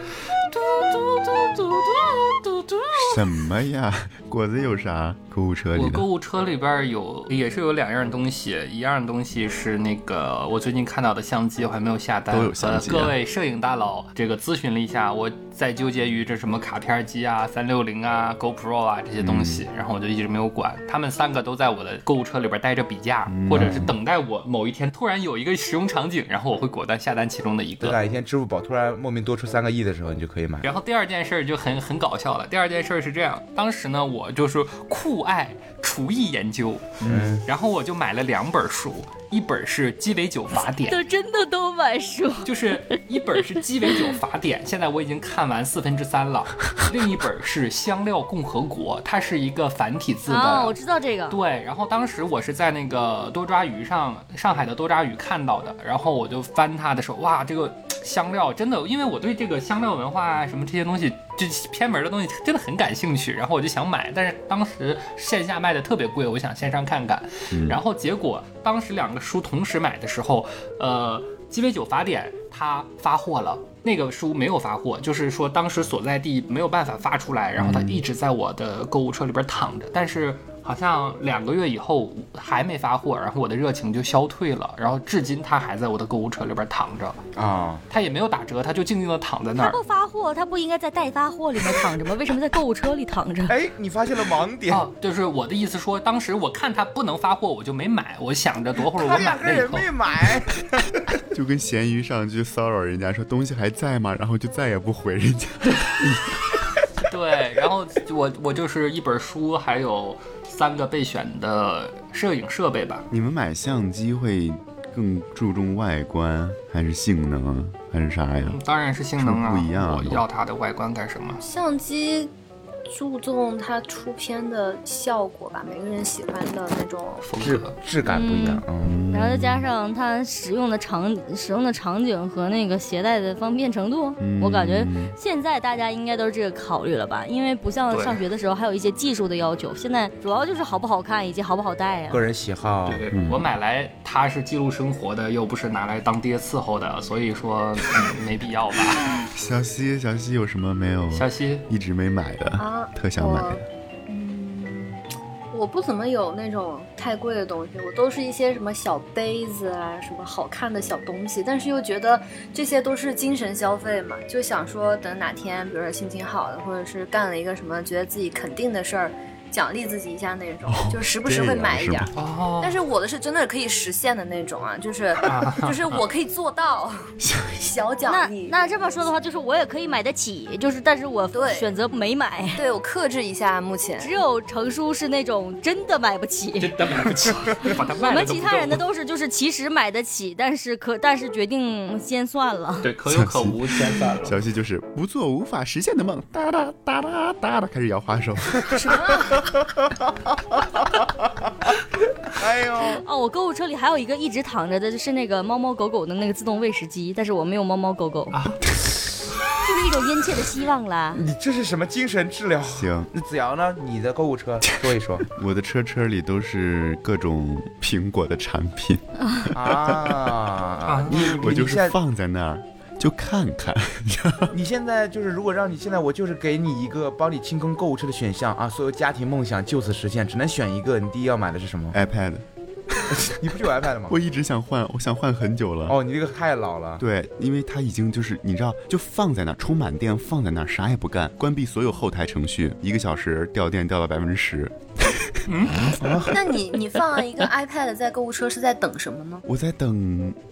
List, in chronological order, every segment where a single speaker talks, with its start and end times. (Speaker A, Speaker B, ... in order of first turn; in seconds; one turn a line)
Speaker A: 0.5-3.3
Speaker B: 2.9-6.0
Speaker A: 5.7-28.0
Speaker B: 12.3-13.2
Speaker B: 19.2-19.6
Speaker B: 23.3-23.9
Speaker C: 27.8-30.7
Speaker A: 30.6-41.0
Speaker B: 37.0-37.4
Speaker C: 37.0-37.4
Speaker D: 40.9-43.0
Speaker A: 42.4-50.8
Speaker D: 43.9-44.1
Speaker D: 50.3-51.4
Speaker A: 51.3-87.2
Speaker B: 67.5-67.8
Speaker B: 77.6-78.0
Speaker C: 87.3-87.8
Speaker A: 87.9-89.8
Speaker D: 89.6-93.5
Speaker C: 93.5-94.8
Speaker A: 94.7-99.9
Speaker C: 98.9-101.0
Speaker B: 101.3-106.4
Speaker A: 107.0-113.1
Speaker B: 113.1-118.6
Speaker A: 118.4-121.4
Speaker B: 119.2-120.2
Speaker E: 121.4-122.3
Speaker E: 122.9-127.3
Speaker A: 127.2-127.8
Speaker C: 127.4-128.9
Speaker D: 128.1-142.2
Speaker B: 128.8-129.7
Speaker B: 134.2-135.1
Speaker A: 137.9-138.2
Speaker C: 142.1-143.0
Speaker A: 142.8-149.1
Speaker B: 143.1-143.5
Speaker B: 149.2-153.6
Speaker A: 151.1-151.7
Speaker E: 152.6-178.6
Speaker B: 170.7-172.1
Speaker A: 172.1-172.8
Speaker A: 175.2-176.0
Speaker B: 177.2-177.7
Speaker D: 178.1-182.6
Speaker E: 181.3-181.7
Speaker E: 182.5-184.1
Speaker D: 184.0-186.7
Speaker A: 186.6-188.8
Speaker D: 188.0-192.9
Speaker A: 192.8-194.4
Speaker B: 193.1-199.0
Speaker C: 198.6-201.3
Speaker E: 198.8-199.3
Speaker C: 202.3-203.0
Speaker D: 202.9-208.4
Speaker A: 208.3-208.6
Speaker D: 209.6-211.2
Speaker C: 211.1-215.3
Speaker B: 212.7-213.1
Speaker B: 215.3-220.3
Speaker C: 219.5-221.9
Speaker A: 220.8-221.5
Speaker B: 221.1-224.5
Speaker C: 224.5-231.9
Speaker B: 231.9-233.2
Speaker C: 233.2-234.2
Speaker B: 234.1-236.0
Speaker C: 235.9-237.0
Speaker B: 237.0-245.5
Speaker A: 245.5-246.2
Speaker C: 245.8-246.3
Speaker E: 246.3-249.4
Speaker B: 249.4-250.4